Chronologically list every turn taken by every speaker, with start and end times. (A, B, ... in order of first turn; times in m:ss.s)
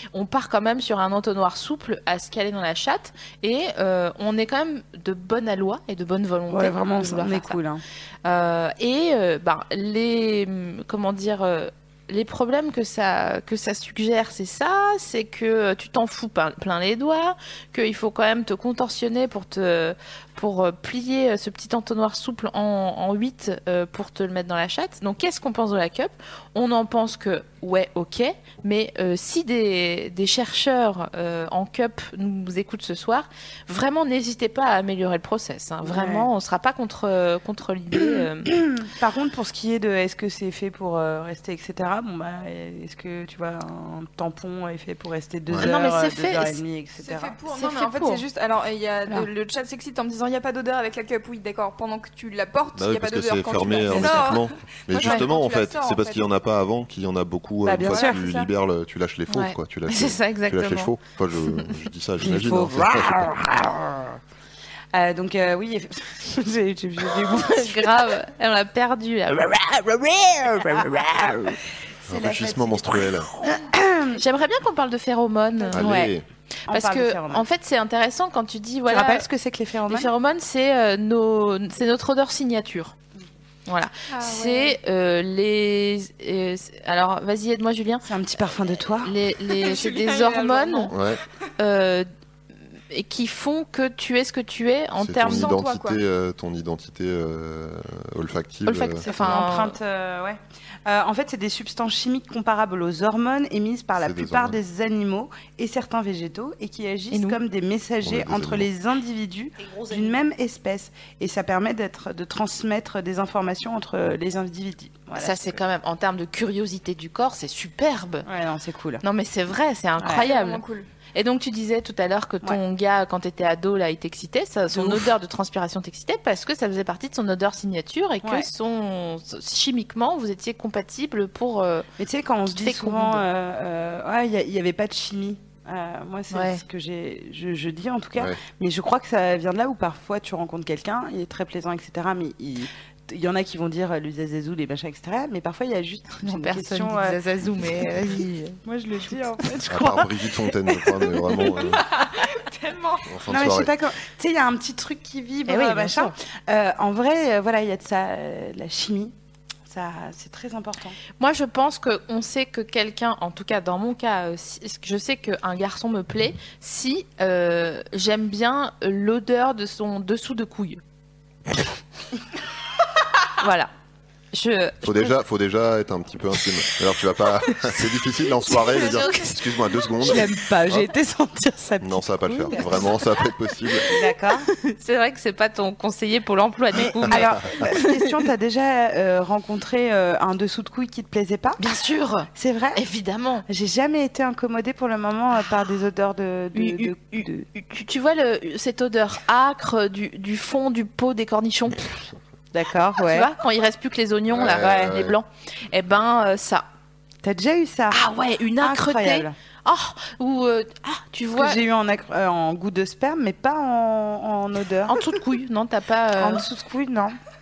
0:00.1-0:07.6 A
0:06.5-0:07.8 B
0:08.2-0:38.5 A
0:35.8-0:36.3 B
0:37.9-0:47.4 B
0:45.6-0:46.6 A
0:47.0-0:56.3 C
0:47.5-0:48.2 A
0:52.8-1:03.3 D
0:53.9-0:54.3 B
0:57.6-0:58.2 B
0:57.9-0:58.5 C
0:59.3-1:00.9 A
1:02.2-1:04.2 B
1:04.9-1:08.0 B
1:07.3-1:11.0 A
1:10.6-1:14.2 B
1:12.1-1:13.3 D
1:14.1-1:15.9 A
1:15.7-1:16.2 B
1:15.7-1:16.2 D
1:16.7-1:17.4 B
1:16.7-1:19.3 A
1:18.9-1:20.1 B
1:19.9-1:23.0 A
1:23.7-1:28.1 A
1:24.1-1:24.8 C
1:28.0-1:29.1 B
1:29.0-1:30.9 A
1:29.5-1:31.0 C
1:30.9-1:31.2 D
1:31.6-1:32.1 A
1:32.9-1:35.6 A
1:35.0-1:39.1 D
1:35.2-1:36.0 C
1:38.7-1:39.8 A
1:39.0-1:55.6 B
1:44.0-1:44.6 D
1:47.1-1:47.4 A
1:48.0-1:48.7 D
1:49.7-1:50.1 A
1:55.1-1:58.3 A
1:58.3-1:59.0 B
1:59.0-2:00.6 A
2:00.0-2:00.3 B
2:00.2-2:00.9 C
2:01.1-2:11.9 A
2:04.7-2:05.1 B
2:08.2-2:08.5 B
2:12.0-2:27.2 B
2:12.5-2:13.2 A
2:16.3-2:16.6 A
2:26.2-2:28.6 A
2:28.6-2:31.8 B
2:29.7-2:31.8 D
2:31.7-2:33.1 C
2:33.1-2:33.7 D
2:33.3-2:39.1 B
2:35.5-2:36.1 A
2:39.7-2:41.0 B
2:41.2-2:50.8 A
2:53.4-2:53.7 A
2:54.3-2:55.1 A
2:54.8-3:00.9 D
2:58.5-2:59.4 A
3:00.0-3:02.9 B
3:01.8-3:03.9 D
3:03.8-3:04.5 B
3:04.6-3:07.9 A
3:06.7-3:11.6 B
3:11.6-3:13.4 A
3:12.3-3:12.8 B
3:13.5-3:17.5 B
3:16.5-3:21.9 A
3:22.5-3:23.3 B
3:23.0-3:26.7 A
3:24.3-3:25.2 D
3:24.6-3:24.9 B
3:27.2-3:28.0 B
3:27.9-3:31.6 A
3:28.6-3:29.3 B
3:31.4-3:35.0 B
3:34.9-3:36.4 A
3:36.2-3:37.2 B